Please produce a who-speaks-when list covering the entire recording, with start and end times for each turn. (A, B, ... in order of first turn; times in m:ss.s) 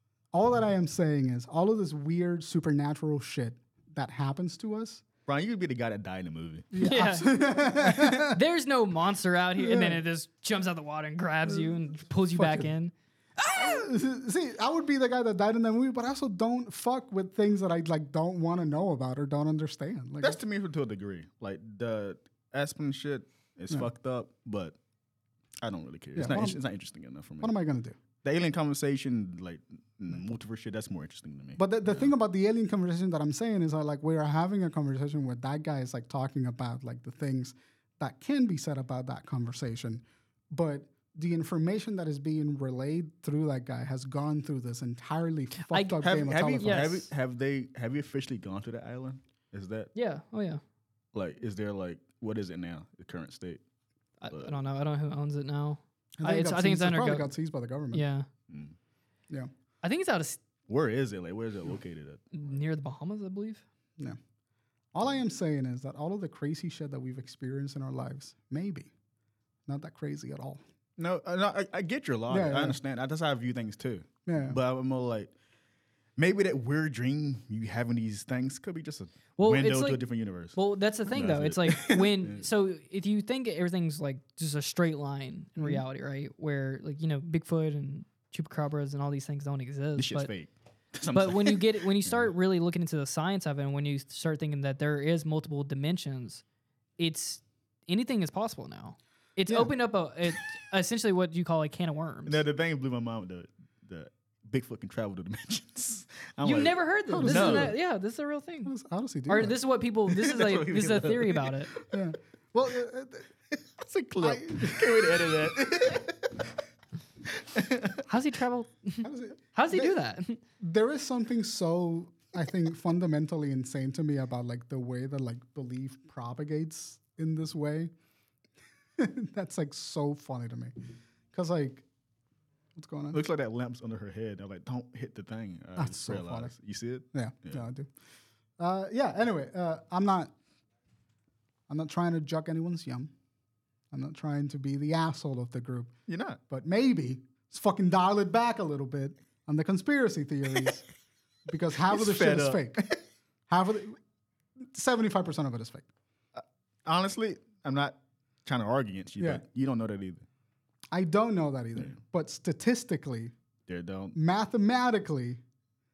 0:00.3-0:05.0 A
0:05.3-0:06.7 B
0:06.7-0:08.4 A
0:06.8-0:13.8 C
0:09.6-0:10.0 A
0:12.3-0:12.7 A
0:13.5-0:20.4 A
0:20.2-0:24.8 B
0:25.6-0:27.5 B
0:26.2-0:26.6 A
0:27.4-0:28.0 A
0:28.2-0:32.1 B
0:31.6-0:47.0 A
0:45.6-0:46.1 C
0:46.0-0:49.9 B
0:46.6-0:47.1 C
0:50.0-0:50.6 C
0:51.1-0:53.6 B
0:54.2-0:57.3 C
0:54.3-0:54.6 B
0:56.2-0:58.0 A
0:57.9-0:58.3 C
0:58.5-0:58.8 B
0:59.8-1:00.4 C
1:00.7-1:02.5 B
1:02.3-1:03.6 C
1:04.9-1:08.9 A
1:09.7-1:10.6 A
1:11.0-1:15.3 B
1:12.3-1:12.8 A
1:14.3-1:14.6 A
1:16.2-1:20.6 B
1:19.4-1:20.0 C
1:20.6-1:30.3 C
1:21.1-1:22.5 B
1:25.6-1:25.8 A
1:30.0-1:32.3 B
1:31.1-1:36.4 C
1:37.0-1:42.4 C
1:42.3-1:47.7 B
1:46.4-1:48.7 C
1:47.1-1:47.8 A
1:48.6-1:49.6 A
1:49.3-1:51.7 C
1:50.1-1:51.8 B
1:51.9-1:53.3 A
1:53.8-1:56.5 B
1:54.2-1:55.3 A
1:57.4-1:58.0 B
1:58.1-2:00.4 C
1:59.0-2:00.0 A
2:00.6-2:07.9 A
2:09.0-2:10.7 A
2:11.3-2:11.8 A
2:12.8-2:13.2 A
2:13.1-2:17.6 B
2:15.8-2:16.5 A
2:17.1-2:17.9 A
2:18.6-2:20.3 A
2:21.7-2:23.1 A
2:23.9-2:25.9 A
2:26.1-2:26.4 B
2:26.5-2:30.8 A
2:31.5-2:32.8 A
2:31.8-2:33.0 B
2:33.5-2:34.0 A
2:34.6-2:35.9 A
2:36.4-2:40.2 B
2:40.9-2:43.3 A
2:43.7-2:44.2 B
2:44.1-2:45.4 A